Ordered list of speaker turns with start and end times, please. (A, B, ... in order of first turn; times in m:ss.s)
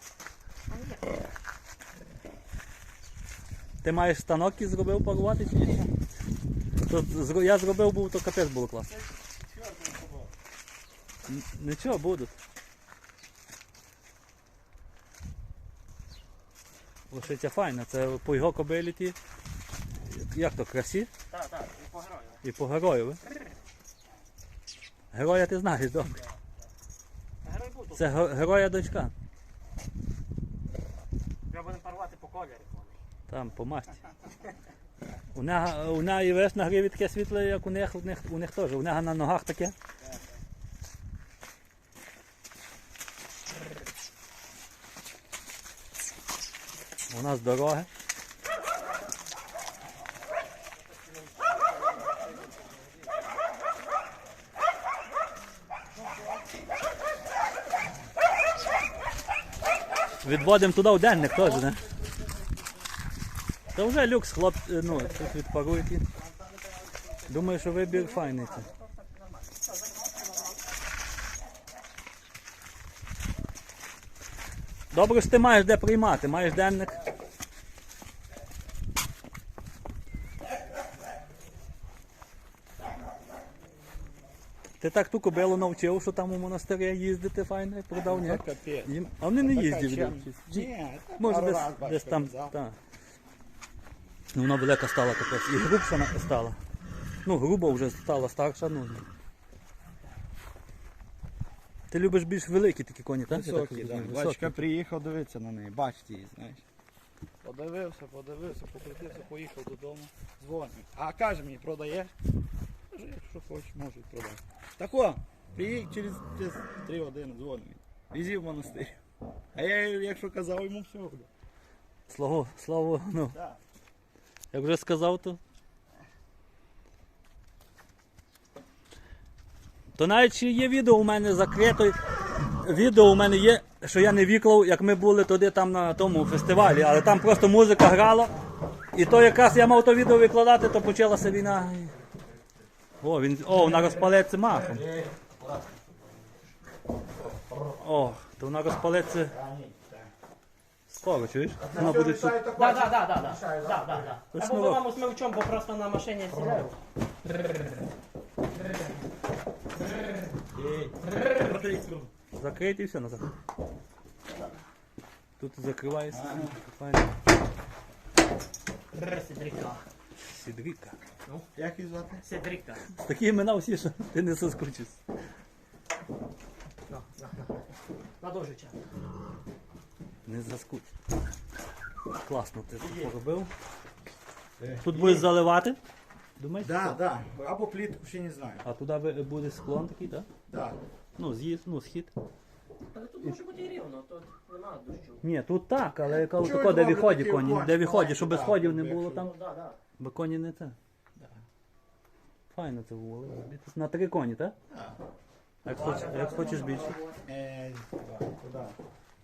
0:00.7-0:01.2 A
0:03.8-0:05.8 B
0:06.8-0:08.9 B
0:08.8-0:10.3 C
0:11.3-0:12.3 B
0:17.1-0:19.2 B
0:20.0-0:21.1 B
0:21.3-0:22.4 A
0:22.4-0:23.2 B
0:25.1-0:26.2 B
0:27.4-0:28.2 A
0:27.9-0:29.1 B
0:31.5-0:33.0 A
0:33.3-0:34.0 B
0:35.3-0:39.7 B
0:47.1-0:47.9 B
0:51.0-0:52.8 A
1:00.2-1:01.8 B
1:03.7-1:06.0 B
1:06.7-1:10.6 A
1:07.3-1:08.7 B
1:14.9-1:17.0 B
1:24.8-1:32.8 B
1:27.9-1:32.6 C
1:34.3-1:36.6 B
1:37.2-1:39.0 B
1:41.9-1:44.6 B
1:43.3-1:46.6 C
1:47.4-1:52.1 C
1:52.9-1:59.0 C
1:59.5-2:01.3 C
2:02.1-2:03.3 B
2:03.3-2:03.6 C
2:04.5-2:05.4 B
2:10.0-2:12.0 B
2:12.6-2:18.3 B
2:18.9-2:21.9 B
2:23.0-2:24.8 B
2:24.6-2:25.8 C
2:27.8-2:29.3 B
2:29.3-2:30.1 C
2:30.9-2:32.5 B
2:31.6-2:34.1 C
2:32.5-2:36.8 A
2:34.3-2:34.8 B
2:36.3-2:36.7 C
2:40.5-2:42.1 C
2:42.4-2:43.3 B
2:45.4-2:47.2 B
2:46.1-2:46.6 C
2:48.9-2:49.8 A
2:50.2-2:51.0 B
2:51.6-2:52.2 C
2:52.2-2:52.8 A
2:52.9-2:55.0 B
2:56.9-2:57.6 A
2:58.2-2:58.8 A
3:00.2-3:00.9 B
3:02.2-3:03.5 B
3:02.8-3:03.1 C
3:04.6-3:05.3 C
3:04.8-3:05.8 B
3:06.4-3:07.0 B
3:06.6-3:08.6 C
3:08.6-3:10.3 B
3:10.5-3:10.8 C
3:11.2-3:12.1 B
3:12.9-3:15.2 A
3:15.2-3:19.4 B
3:16.0-3:19.3 C
3:19.1-3:19.8 A
3:20.0-3:20.8 B
3:22.5-3:24.5 B
3:24.7-3:25.0 C
3:25.6-3:27.0 B
3:25.7-3:27.2 A
3:25.8-3:28.7 C